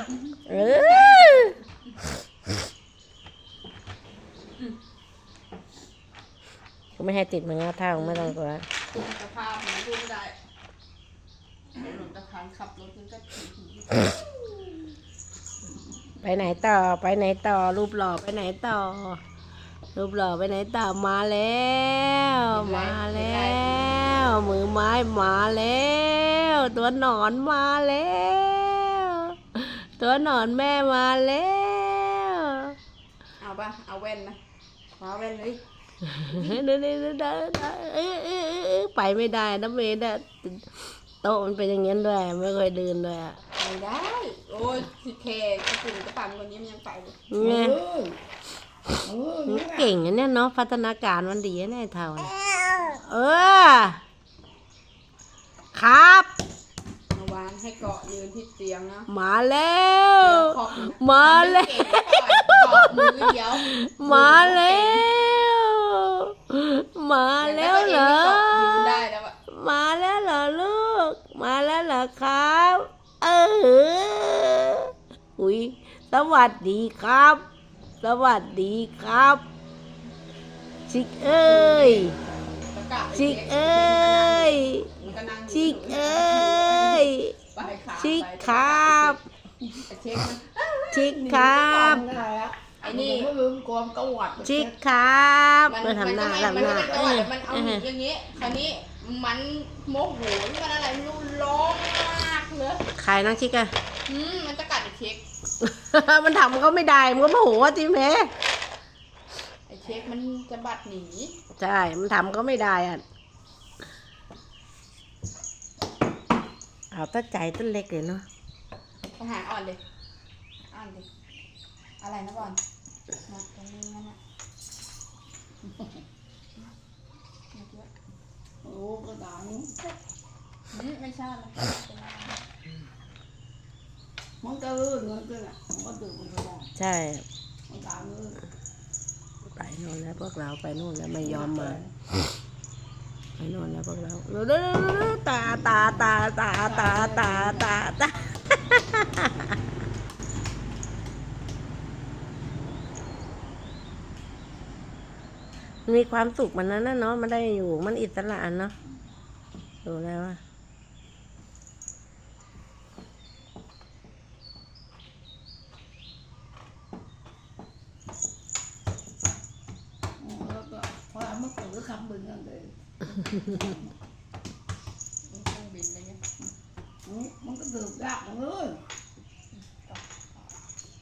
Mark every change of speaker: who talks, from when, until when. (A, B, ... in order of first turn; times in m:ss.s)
0:00.5-0:01.5 A
0:00.5-0:01.5 B
0:07.0-0:08.6 A
0:08.0-0:08.4 B
0:08.9-0:10.4 B
0:11.7-0:14.8 B
0:16.2-0:19.2 A
0:20.0-0:32.8 A
0:22.5-0:24.1 B
0:33.4-0:34.4 B
0:35.0-0:35.6 B
0:36.2-0:43.4 A
0:43.6-0:47.2 B
0:47.3-0:47.8 A
0:47.4-0:48.2 C
0:49.0-0:49.9 C
0:49.5-0:54.0 A
0:55.7-0:56.3 A
0:57.1-0:59.1 B
0:59.1-1:17.4 A
1:00.2-1:05.1 B
1:07.4-1:09.4 B
1:18.0-1:19.4 A
1:20.9-1:22.2 A
1:21.4-1:22.2 B
1:22.7-1:29.2 B
1:23.2-1:24.9 A
1:25.5-1:27.4 A
1:28.0-1:29.2 A
1:29.9-1:31.8 B
1:30.9-1:32.0 A
1:31.6-1:34.8 C
1:32.8-1:33.3 B
1:34.4-1:37.8 A
1:35.7-1:42.8 B
1:43.0-1:43.7 A
1:44.1-1:45.2 B
1:45.6-1:48.3 A
1:49.7-1:51.4 B
1:51.6-1:53.0 A
1:56.9-1:58.2 A
1:59.2-1:59.8 B
2:00.7-2:01.1 B
2:02.0-2:02.6 B
2:03.3-2:04.2 B
2:05.6-2:05.9 C
2:07.5-2:07.9 B
2:08.6-2:09.8 C
2:10.7-2:12.4 B
2:14.4-2:16.7 C
2:16.8-2:17.2 A
2:17.7-2:18.4 C
2:19.6-2:21.8 A
2:21.2-2:21.9 C
2:23.4-2:29.5 A
2:26.6-2:27.7 C
2:35.9-2:38.7 A
2:39.8-2:40.4 A
2:50.2-2:53.9 C
2:55.3-2:56.2 B
2:57.1-2:58.8 C
2:59.6-3:00.5 B